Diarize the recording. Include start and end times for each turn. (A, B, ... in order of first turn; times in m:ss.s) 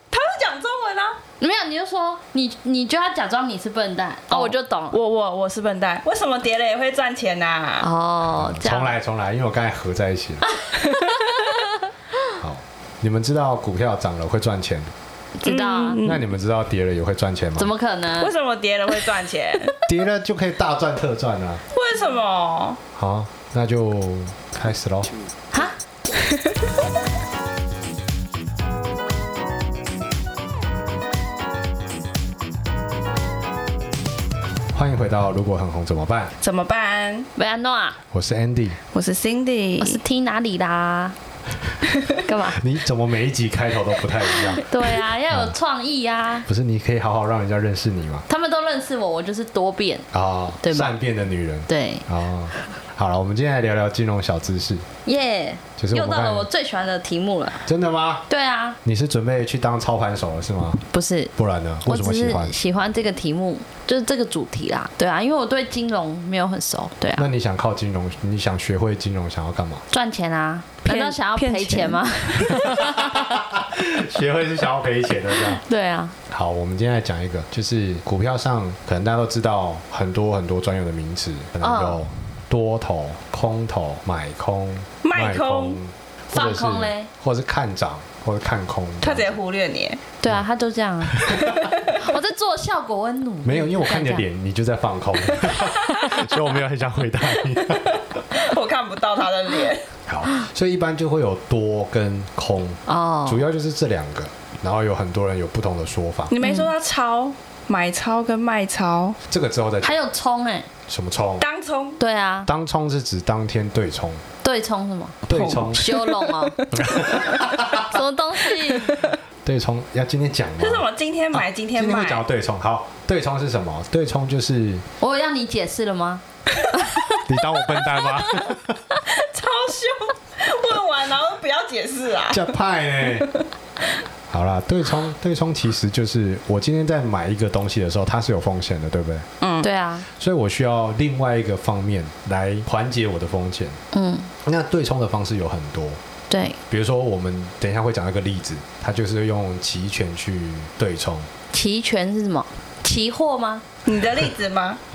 0:00.1-0:01.2 A
0:01.4-0:05.0 B
0:04.3-0:07.9 A
0:07.8-0:08.9 B
0:08.3-0:10.5 C
0:10.8-0:11.4 A
0:10.8-0:11.5 B
0:12.4-0:14.9 C
0:15.4-0:16.0 B
0:15.4-0:16.2 A
0:16.0-0:17.7 C
0:17.6-0:18.4 B
0:18.2-0:19.7 A
0:19.8-0:21.6 C
0:21.7-0:22.8 A
0:23.0-0:25.1 C
0:26.1-0:26.6 A
0:34.7-0:36.3 C
0:36.4-0:37.3 A
0:37.4-0:38.0 B
0:38.1-0:38.8 C
0:38.9-0:40.0 A
0:39.8-0:41.2 B
0:42.2-0:42.6 B
0:42.5-0:44.6 C
0:44.6-0:46.5 B
0:45.3-0:45.6 C
0:46.5-0:48.2 C
0:48.3-0:50.1 B
0:50.1-0:54.9 C
0:50.6-0:50.9 B
0:51.7-0:52.0 B
0:55.0-0:57.7 B
0:55.8-0:56.5 C
0:57.6-0:58.2 C
0:58.3-0:58.8 B
0:58.8-1:00.8 C
1:00.9-1:01.3 B
1:01.4-1:02.5 C
1:01.8-1:07.3 B
1:07.2-1:09.8 C
1:09.9-1:13.4 B
1:10.8-1:13.0 A
1:12.8-1:15.6 C
1:15.5-1:16.2 B
1:16.3-1:29.4 C
1:21.6-1:22.0 B
1:25.0-1:25.8 A
1:26.3-1:27.1 B
1:29.0-1:30.0 A
1:30.2-1:34.2 B
1:31.0-1:31.7 C
1:31.4-1:31.8 A
1:33.4-1:38.2 C
1:38.3-1:39.9 A
1:40.1-1:46.4 C
1:42.9-1:43.4 B
1:46.3-1:49.2 A
1:46.4-1:46.7 B
1:49.3-1:50.0 C
1:49.8-1:50.7 B
1:50.9-1:51.4 C
1:51.4-1:52.0 A
1:52.0-1:52.5 B
1:52.4-1:54.2 C
1:54.4-1:55.2 B
1:55.2-1:55.8 C
1:55.3-1:56.9 A
1:55.7-1:56.6 B
1:56.7-1:57.9 C
1:57.7-1:59.0 B
1:59.4-2:04.8 C
2:00.6-2:02.2 A
2:05.0-2:08.4 B
2:07.2-2:08.8 C
2:09.1-2:12.4 A
2:12.3-2:13.3 C
2:14.3-2:19.3 C
2:19.4-2:19.7 A
2:19.6-2:20.1 B
2:20.1-2:23.8 C
2:23.9-2:24.3 B
2:24.4-2:26.0 C
2:26.3-2:26.6 B
2:26.7-2:31.3 C
2:31.5-2:33.6 B
2:33.8-2:34.8 A